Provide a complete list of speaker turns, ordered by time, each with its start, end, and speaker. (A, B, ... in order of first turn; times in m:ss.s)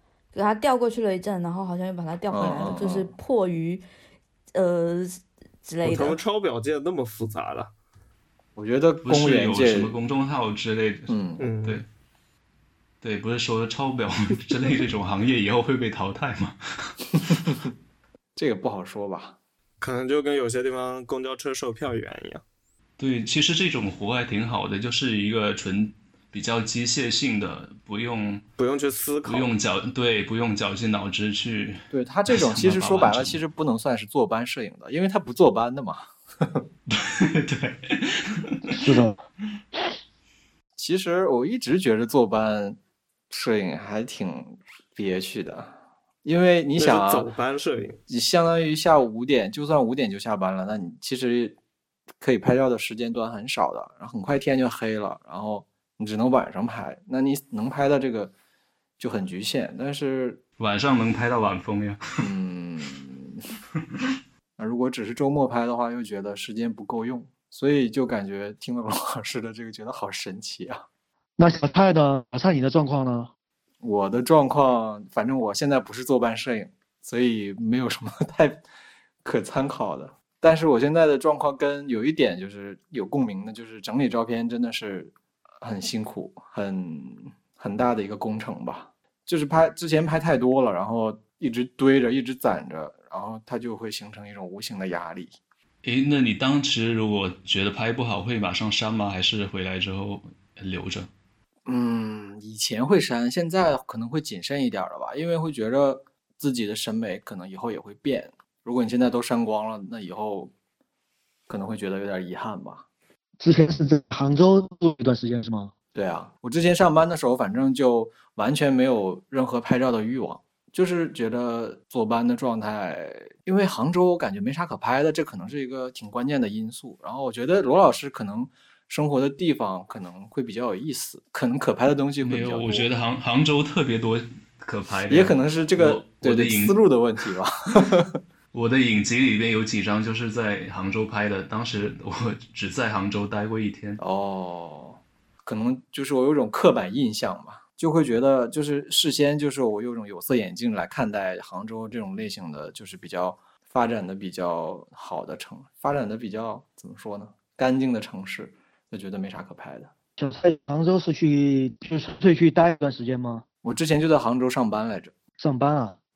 0:00.3-0:03.8 A
0:02.3-0:03.1 B
0:04.5-0:06.2 A
0:05.8-0:07.7 C
0:08.6-0:09.9 B
0:09.0-0:11.8 D
0:11.1-0:11.5 B
0:11.4-0:11.8 C
0:13.0-0:17.4 D
0:18.4-0:19.4 B
0:19.8-0:22.4 C
0:23.0-0:28.4 D
0:28.6-0:29.5 C
0:29.2-0:33.4 D
0:31.9-0:36.6 B
0:36.9-0:38.7 D
0:38.7-0:39.2 E
0:40.8-0:42.8 B
0:43.3-0:47.3 B
0:46.8-0:48.0 C
0:48.1-0:51.6 B
0:52.2-0:58.3 B
0:59.0-1:00.4 B
1:00.6-1:02.0 D
1:02.2-1:03.4 B
1:04.6-1:10.8 B
1:11.4-1:13.3 E
1:13.8-1:18.6 B
1:19.2-1:35.4 B
1:35.8-1:41.1 D
1:41.6-1:50.5 B
1:51.5-1:52.8 B
1:53.4-1:55.7 E
1:55.9-2:12.9 B
2:12.2-2:16.8 D
2:15.1-2:18.2 B
2:18.5-2:24.0 D
2:24.0-2:39.9 B
2:40.2-2:43.4 E
2:43.6-2:45.1 B
2:45.4-2:46.0 E